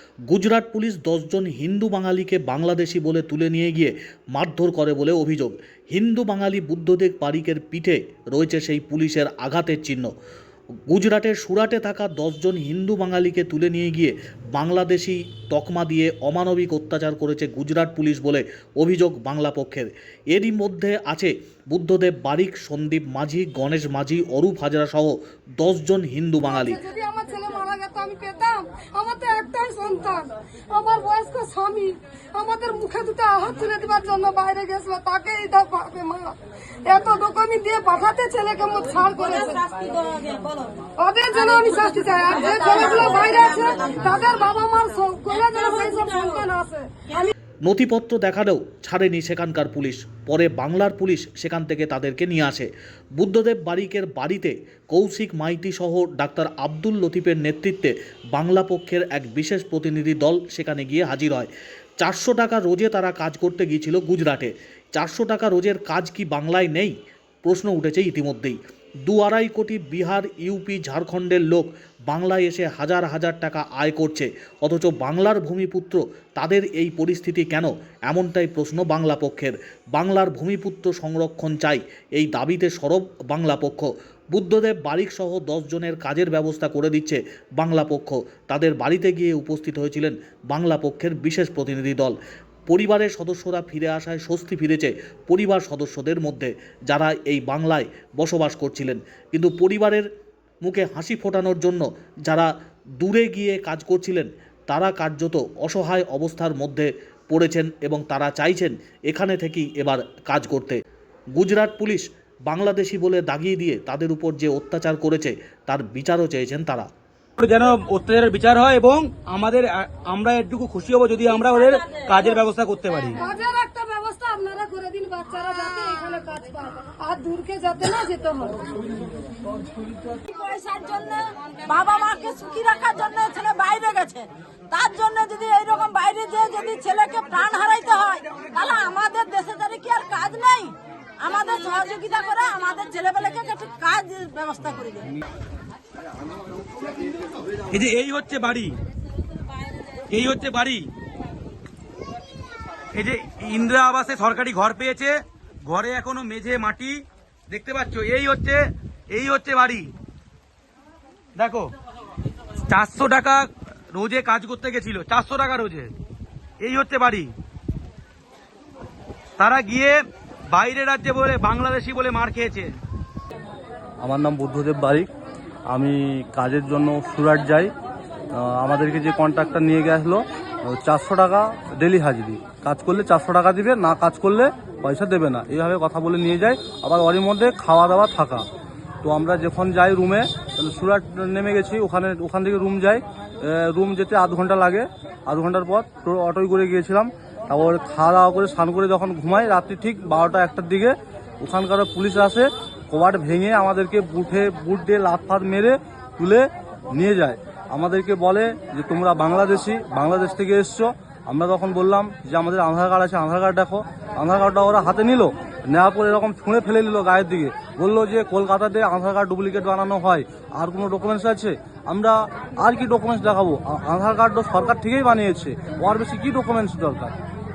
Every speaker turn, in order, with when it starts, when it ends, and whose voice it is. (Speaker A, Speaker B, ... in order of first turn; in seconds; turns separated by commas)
Speaker A: 0.3-10.1, Speaker A: 10.9-26.8, Speaker B: 26.5-39.6, Speaker C: 39.2-40.8, Speaker B: 41.0-47.3, Speaker C: 42.3-44.1, Speaker C: 45.3-46.4, Speaker A: 47.6-61.5, Speaker A: 62.0-66.9, Speaker A: 67.5-100.1, Speaker A: 100.6-110.8, Speaker A: 111.4-116.9, Speaker D: 117.4-123.2, Speaker B: 123.2-128.8, Speaker C: 130.3-145.1, Speaker D: 147.7-148.8, Speaker D: 150.1-150.9, Speaker D: 152.9-159.9, Speaker D: 161.4-161.7, Speaker D: 162.7-165.9, Speaker D: 166.6-167.3, Speaker D: 169.4-172.8, Speaker E: 174.0-175.1, Speaker E: 175.7-177.7, Speaker E: 178.3-188.5, Speaker E: 189.0-227.2